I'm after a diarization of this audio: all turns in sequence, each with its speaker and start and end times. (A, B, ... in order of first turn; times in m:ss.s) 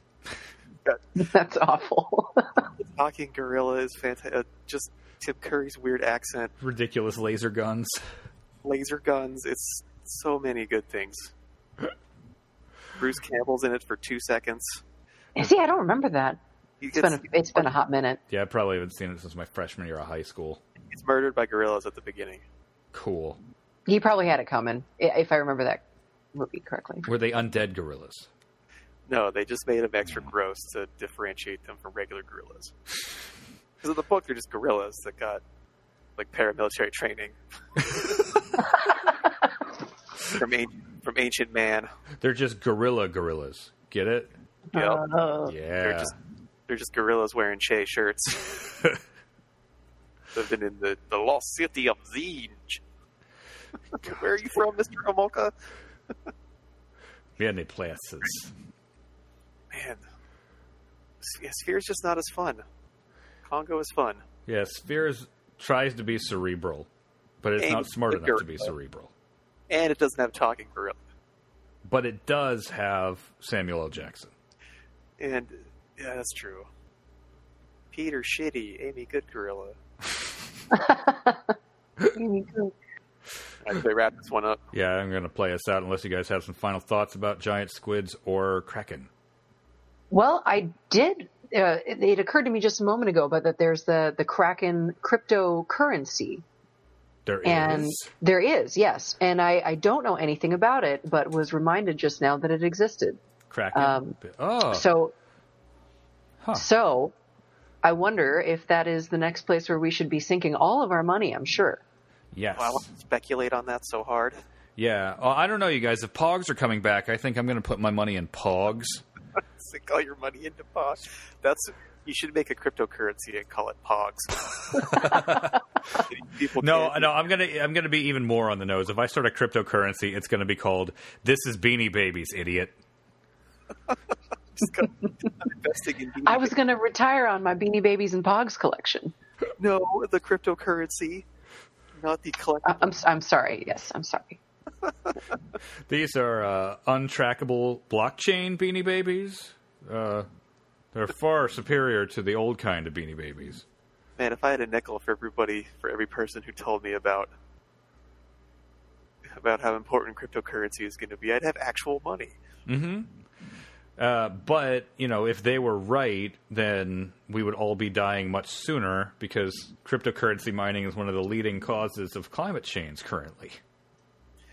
0:01.2-0:02.7 A
0:02.8-0:06.5 B
0:06.6-0:08.0 C
0:08.6-0:11.3 B
0:13.0-0:14.8 B
0:15.4-0:16.4 A
0:16.8-0:17.7 B
0:16.9-0:18.2 A
0:18.3-0:20.6 C
0:20.9-0:22.4 B
0:22.9-0:23.4 C
0:23.9-0:25.8 A
0:26.3-0:27.1 A
0:27.1-0:28.3 C
0:29.1-0:32.7 B
0:33.8-0:35.4 B
0:36.2-0:37.4 B
0:37.9-0:38.2 B
0:40.2-0:41.9 B
0:42.2-0:44.3 C
0:44.7-0:45.0 B
0:44.7-0:45.5 A
0:45.5-0:46.1 C
0:45.8-0:46.1 B
0:46.7-0:48.7 B
0:50.3-0:52.8 B
0:53.9-0:55.5 B
0:57.4-0:58.5 C
0:59.7-1:00.0 B
1:01.2-1:02.6 B
1:03.4-1:04.2 B
1:04.5-1:06.9 C
1:07.4-1:09.1 C
1:07.6-1:08.7 B
1:09.7-1:11.0 B
1:11.8-1:14.3 C
1:15.2-1:16.7 B
1:17.9-1:19.8 B
1:20.7-1:21.5 A
1:22.1-1:22.7 A
1:23.6-1:24.6 B
1:24.7-1:29.1 C
1:30.1-1:36.4 A
1:37.3-1:38.1 C
1:37.4-1:43.2 A
1:43.5-1:44.9 C
1:43.7-1:45.1 A
1:46.4-1:46.7 C
1:46.5-1:47.1 A
1:47.8-1:51.8 A
1:52.3-1:52.9 C
1:52.6-1:54.4 B
1:54.8-1:59.0 C
1:59.6-2:05.1 B
2:04.8-2:05.6 C
2:06.0-2:07.2 B
2:06.6-2:12.7 C
2:14.6-2:16.6 B
2:16.2-2:19.1 A
2:19.6-2:21.2 B
2:22.0-2:22.9 B
2:22.6-2:24.4 A
2:25.9-2:30.3 C
2:30.9-2:33.6 C
2:34.2-2:37.3 B
2:39.3-2:42.4 B
2:42.7-2:43.2 C
2:44.0-2:53.6 C